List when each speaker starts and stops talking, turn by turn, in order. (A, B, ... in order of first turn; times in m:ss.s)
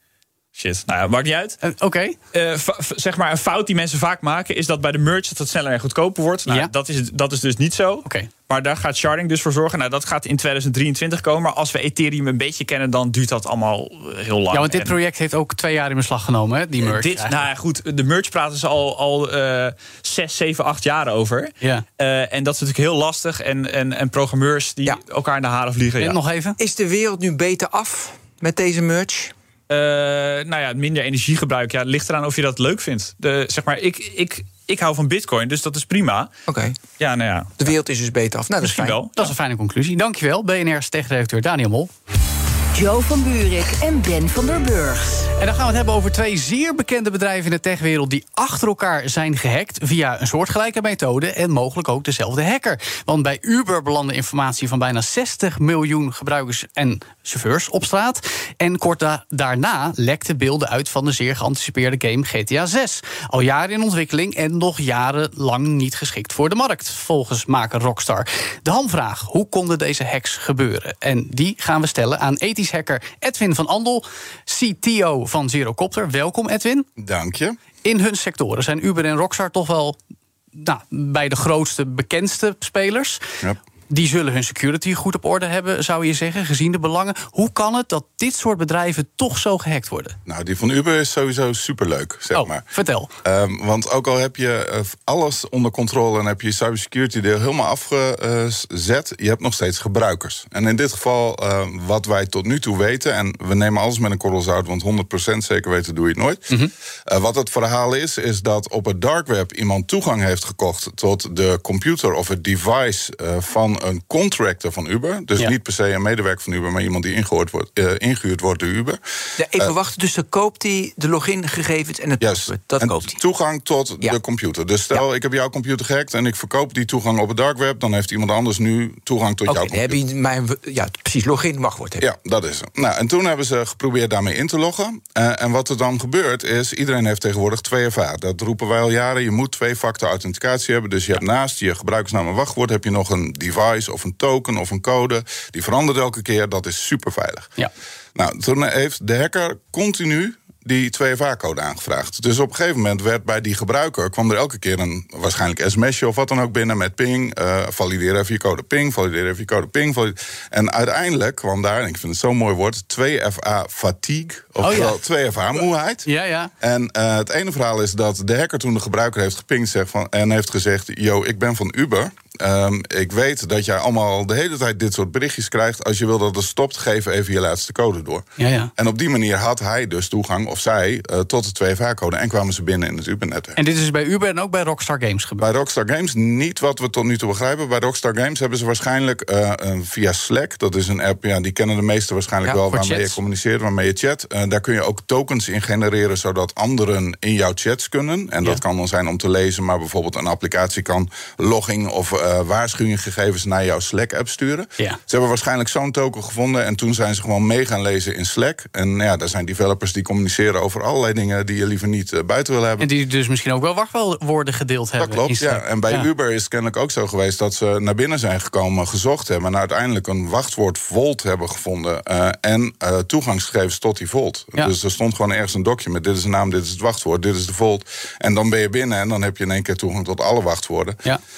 0:00.5-0:01.6 A
0:01.6-0:02.2 B
0:02.3-0:15.0 A
0:14.5-0:17.4 B
0:16.8-0:26.2 A
0:26.0-0:26.6 B
0:26.6-0:29.3 C
0:29.7-0:36.3 A
0:36.5-0:36.8 C
0:37.0-0:37.5 A
0:37.6-0:39.0 C
0:38.6-0:39.3 A
0:39.2-0:41.9 B
0:42.7-0:45.3 D
0:45.4-1:16.9 B
1:17.0-1:17.6 E
1:17.8-1:20.0 B
1:20.6-1:23.2 B
1:23.9-1:30.2 B
1:30.2-1:32.6 E
1:32.3-1:33.1 B
1:33.2-1:59.0 E
1:59.4-2:03.2 C
2:02.2-2:10.0 E
2:09.5-2:12.0 C
2:12.0-2:27.5 E
2:28.1-2:46.1 E
2:44.6-2:45.0 B
2:45.5-2:46.5 B
2:46.6-2:58.2 E
2:58.4-2:58.7 B
2:58.8-3:03.6 E
3:03.6-3:05.5 B
3:05.4-3:32.9 E
3:12.7-3:13.2 B
3:32.8-3:36.1 B
3:35.0-3:51.0 E